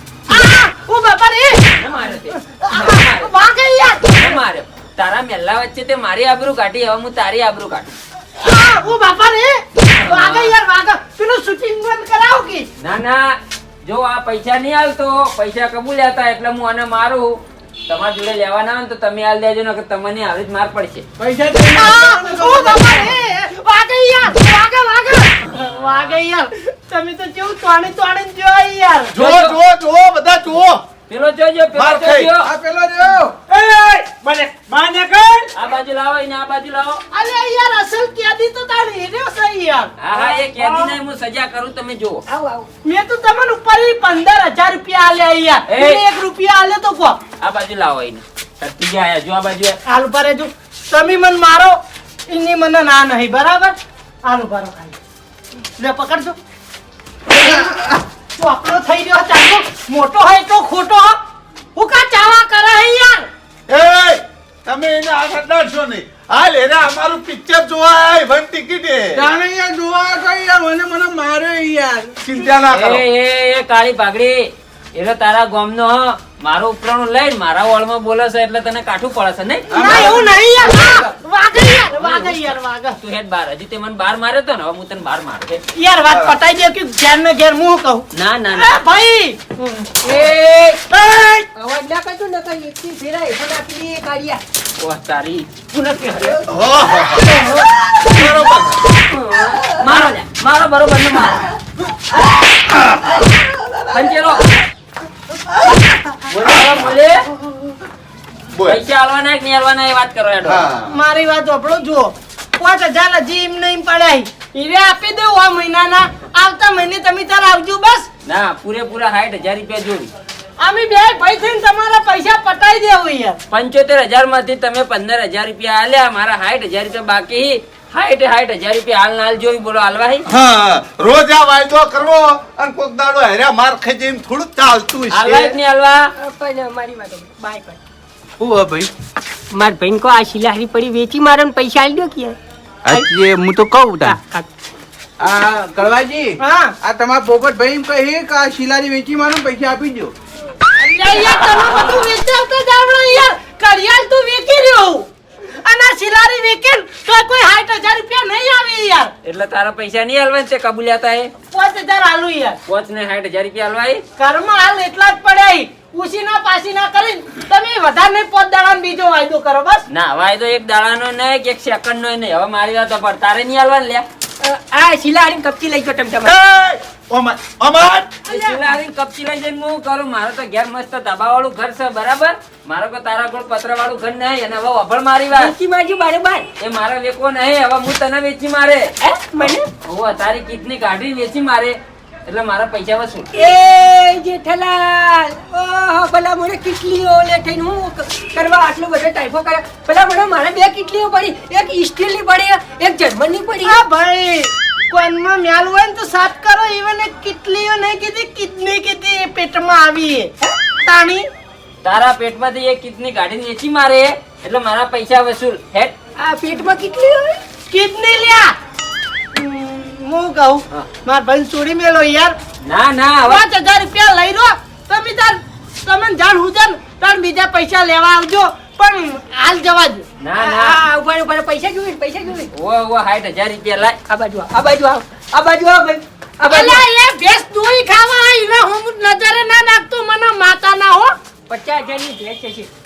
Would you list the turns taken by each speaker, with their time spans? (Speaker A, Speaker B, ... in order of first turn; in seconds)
Speaker A: 0.3-1.6, 2.4-4.4, 8.4-12.7, 21.7-29.1, 37.1-40.9, 42.8-47.2, 49.9-55.0, 55.8-56.4, 57.3-61.2, 61.8-63.3, 79.8-83.0, 85.8-90.0, 90.9-91.5, 110.9-118.1, 120.6-123.4, 146.4-146.7, 150.8-155.1, 155.6-159.1, 161.5-162.6, 164.2-169.9, 178.3-178.6, 203.6-211.3, 217.7-218.6, 219.3-222.4, 223.3-230.1, 236.4-241.1
Speaker B: 1.7-3.3, 4.1-8.0, 10.0-10.5, 12.8-17.4, 17.9-21.0, 29.2-29.6, 31.1-32.5, 35.5-37.0, 40.0-42.2, 45.7-46.0, 47.4-49.8, 72.7-80.2, 81.9-85.6, 88.1-88.8, 94.8-96.5, 99.0-101.5, 103.9-104.6, 106.3-107.2, 108.7-110.7, 118.2-120.1, 123.5-130.2, 135.1-136.1, 159.2-161.3, 162.7-164.0, 169.9-174.1, 178.3-185.5, 186.6-188.9, 189.8-191.8, 192.3-193.3, 211.8-215.9, 222.7-223.5, 230.2-230.8, 232.5-234.0
Speaker C: 21.2-23.1, 32.4-33.4, 69.2-72.1, 79.7-81.1, 138.4-138.9, 142.8-144.2, 145.2-150.1
Speaker D: 29.1-30.8, 31.8-32.3, 33.5-35.5, 63.7-69.2, 72.2-73.0, 96.5-97.5, 98.0-98.9, 108.5-108.8, 110.4-110.9, 130.3-135.6, 176.2-178.2
Speaker E: 42.3-42.7, 90.0-90.9, 91.5-94.4, 96.9-98.2, 136.2-137.8, 139.5-142.4, 144.1-144.5, 174.4-176.4, 185.3-186.5, 189.0-189.7, 193.3-203.8, 216.2-217.4, 230.4-232.5, 234.1-236.8, 241.5-242.7